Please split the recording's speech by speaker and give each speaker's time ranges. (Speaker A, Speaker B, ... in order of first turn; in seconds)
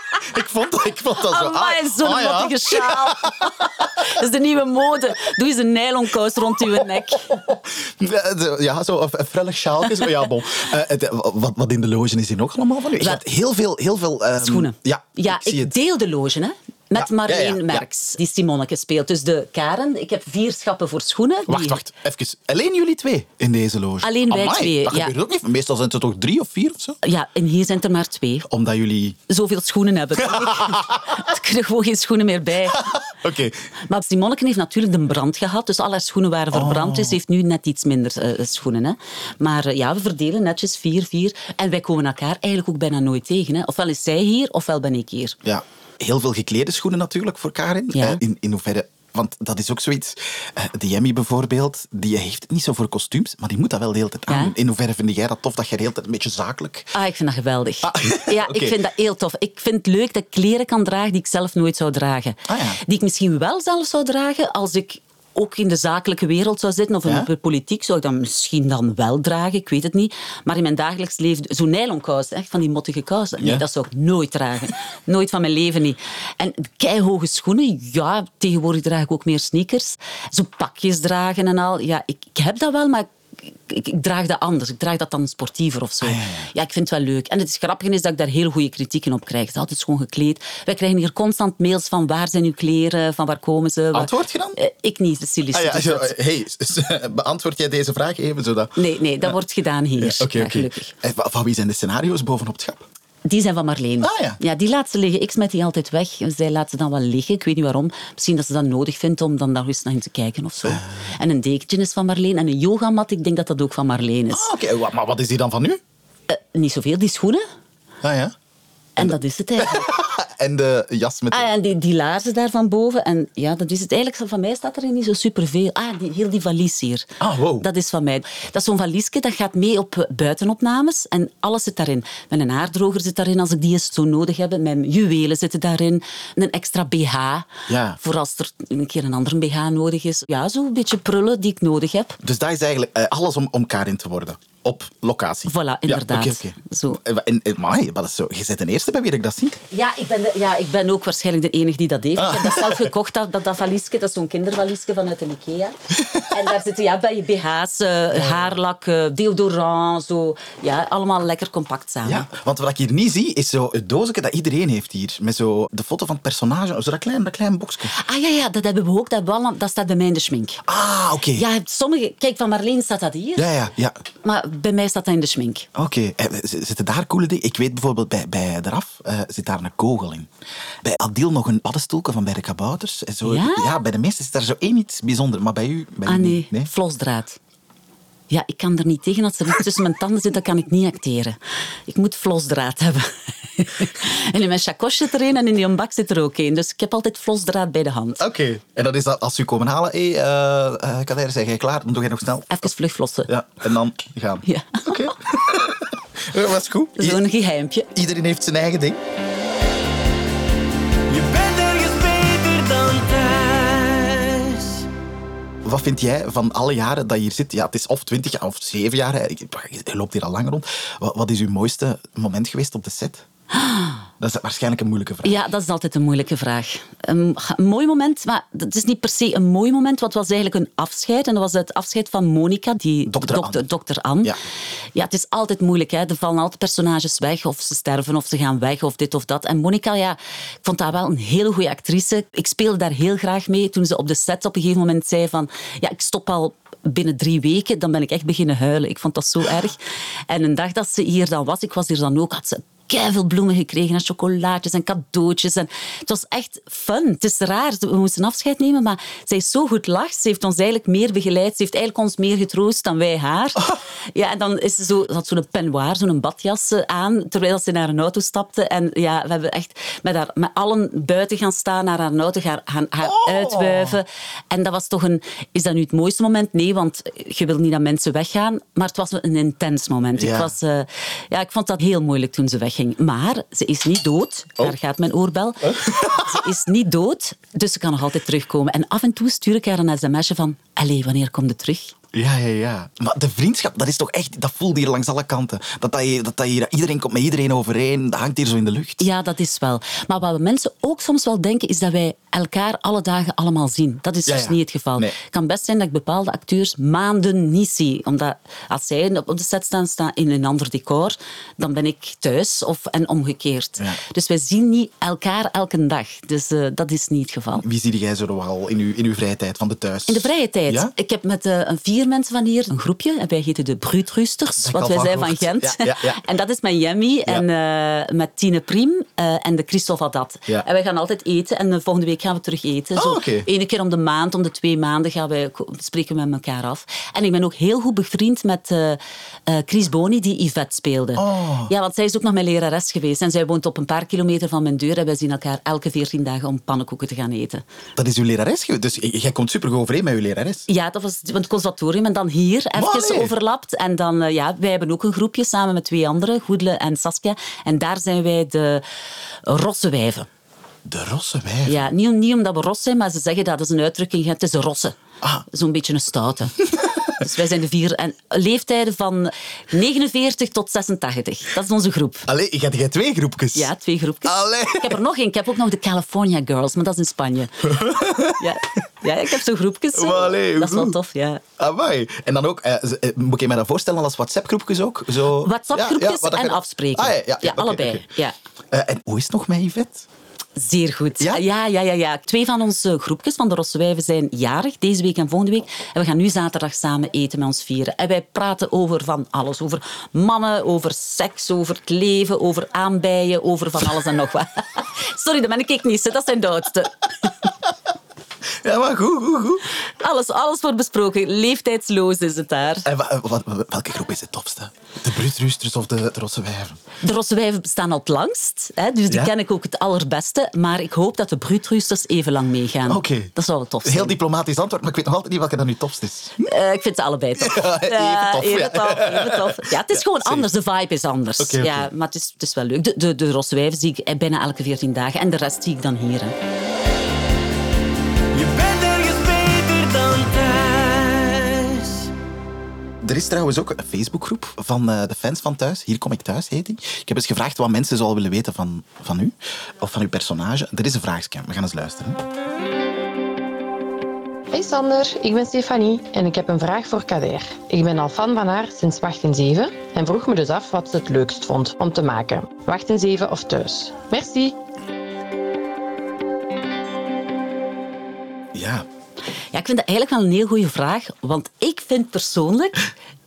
Speaker A: 0.1-3.6, 7.2-15.7, 16.9-17.8, 21.5-27.0, 28.5-29.2, 30.3-31.1, 32.7-33.6, 36.5-37.2, 45.4-56.9, 57.8-58.8, 62.5-62.8, 73.4-73.6, 86.0-86.5, 93.9-94.6, 95.5-99.3, 100.0-102.8, 104.0-104.4, 110.7-110.9, 114.3-115.8, 118.0-118.3, 119.0-121.5, 127.2-127.7, 137.7-138.0, 142.2-149.6, 152.2-152.9, 158.2-158.5, 162.0-167.9, 170.7-171.4, 173.3-174.0, 175.7-180.3, 180.8-186.7, 198.2-202.7, 203.3-207.2, 207.9-209.0, 215.6-223.2, 224.2-225.4, 233.1-233.6, 273.0-274.0, 280.1-280.5, 285.6-286.4, 292.1-299.1, 304.3-305.1, 317.6-320.9, 324.6-326.2, 332.9-333.5, 341.1-341.7, 347.9-350.7, 352.7-353.3, 360.8-361.9, 366.8-367.1, 372.3-373.7, 374.2-375.0, 377.6-378.8, 379.9-381.0, 381.6-388.0, 388.7-390.1, 391.2-391.4, 408.6-409.7, 412.8-416.8, 422.9-423.3, 423.8-426.5, 427.4-430.5, 431.4-431.9, 443.0-452.2, 468.5-468.8
Speaker B: 1.2-7.4, 13.0-13.2, 14.4-21.8, 24.0-25.1, 27.0-28.5, 29.3-32.9, 33.9-45.4, 47.9-48.2, 54.3-54.5, 56.9-96.1, 98.8-100.9, 103.2-114.5, 116.3-117.4, 119.0-119.9, 121.3-142.2, 145.5-147.0, 149.7-162.3, 167.9-170.6, 171.3-173.5, 174.2-175.7, 183.2-183.7, 186.1-187.4, 188.3-198.2, 202.5-203.3, 204.4-205.1, 207.0-207.9, 223.5-224.0, 225.2-234.3, 234.9-291.9, 299.0-317.6, 320.1-347.6, 350.7-358.8, 359.4-360.3, 361.6-366.6, 367.1-372.3, 373.5-381.4, 385.4-388.3, 390.6-407.3, 410.0-412.9, 417.0-424.2, 426.4-436.4, 469.5-472.9
Speaker C: 211.1-214.8, 438.3-442.1
Speaker D: 454.5-464.5